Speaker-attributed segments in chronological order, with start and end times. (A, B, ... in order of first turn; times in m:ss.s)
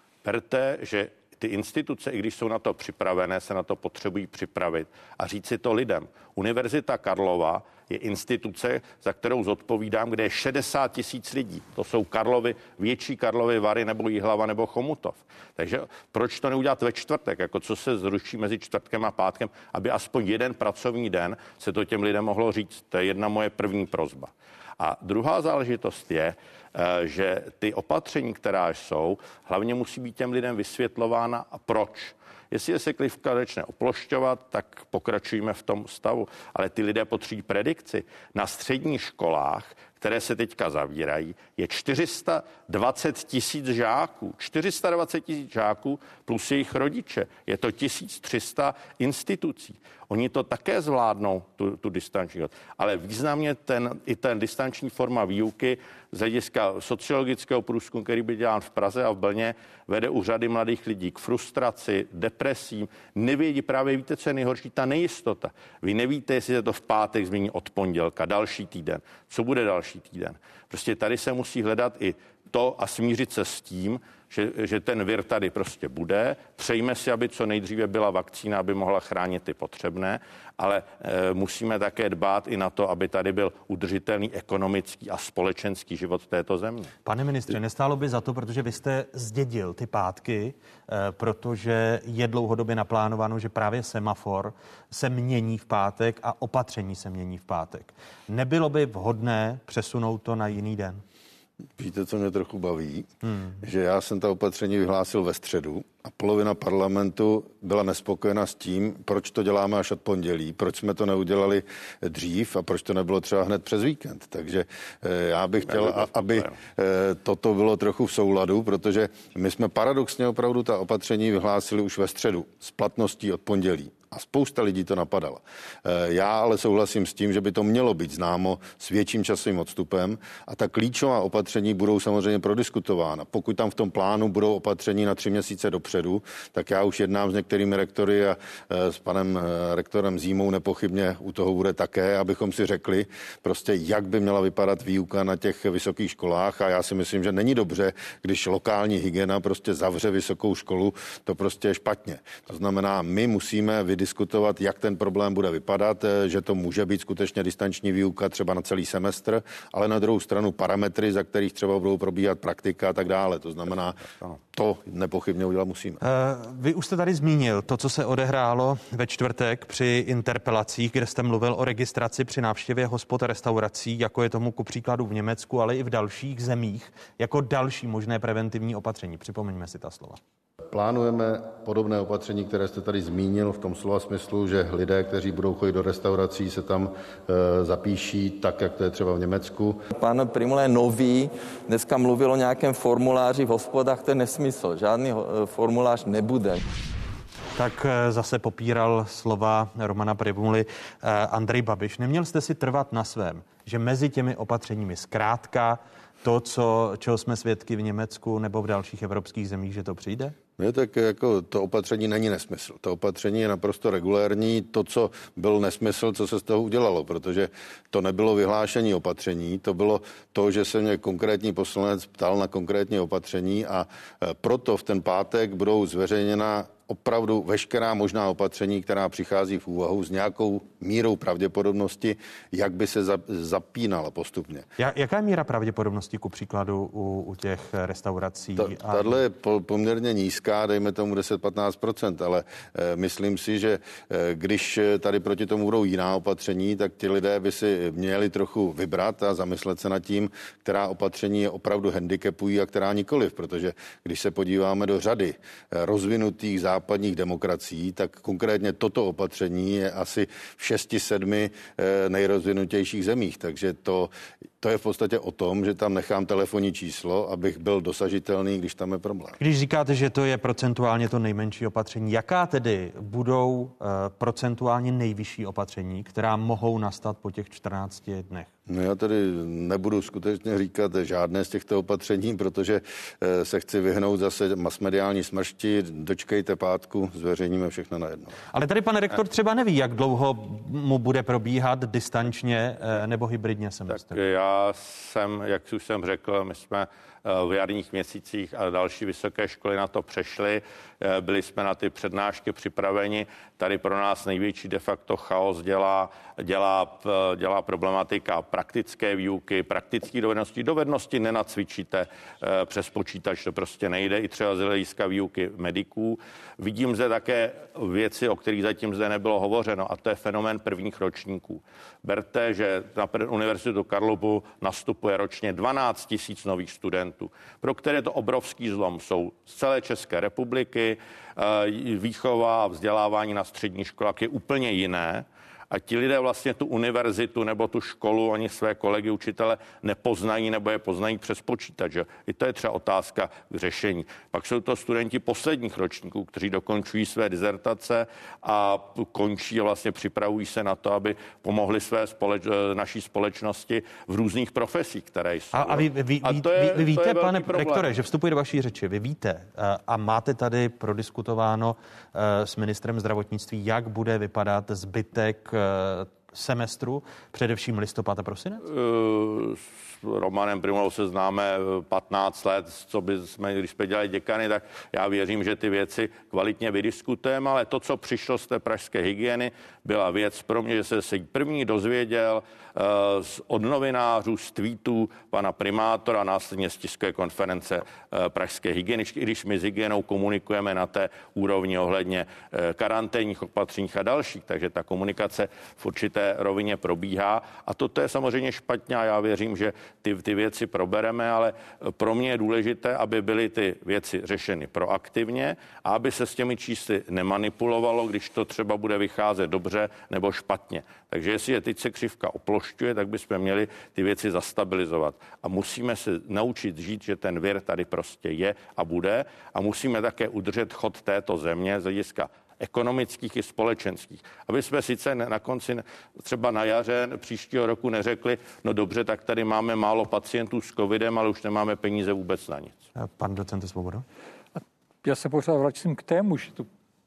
0:00.2-1:26.9 A
1:27.0-1:41.0 B
1:41.8-1:43.1 C
1:43.2-1:43.6 B
1:43.6-2:44.0 C
1:55.7-1:56.5 A
2:44.5-2:46.0 C
2:46.0-3:00.2 B
3:00.7-3:09.8 C
3:09.9-3:16.6 D
3:17.6-3:30.4 B
3:30.6-3:54.7 C
3:54.8-3:59.2 B
3:58.6-4:29.4 C
4:29.4-4:38.5 B
4:38.7-4:48.3 C
4:48.5-4:54.2 B
4:54.1-5:57.9 A
5:55.5-6:08.6 B
6:08.6-7:12.8 A
7:13.0-7:14.0 B
7:14.6-7:16.7 E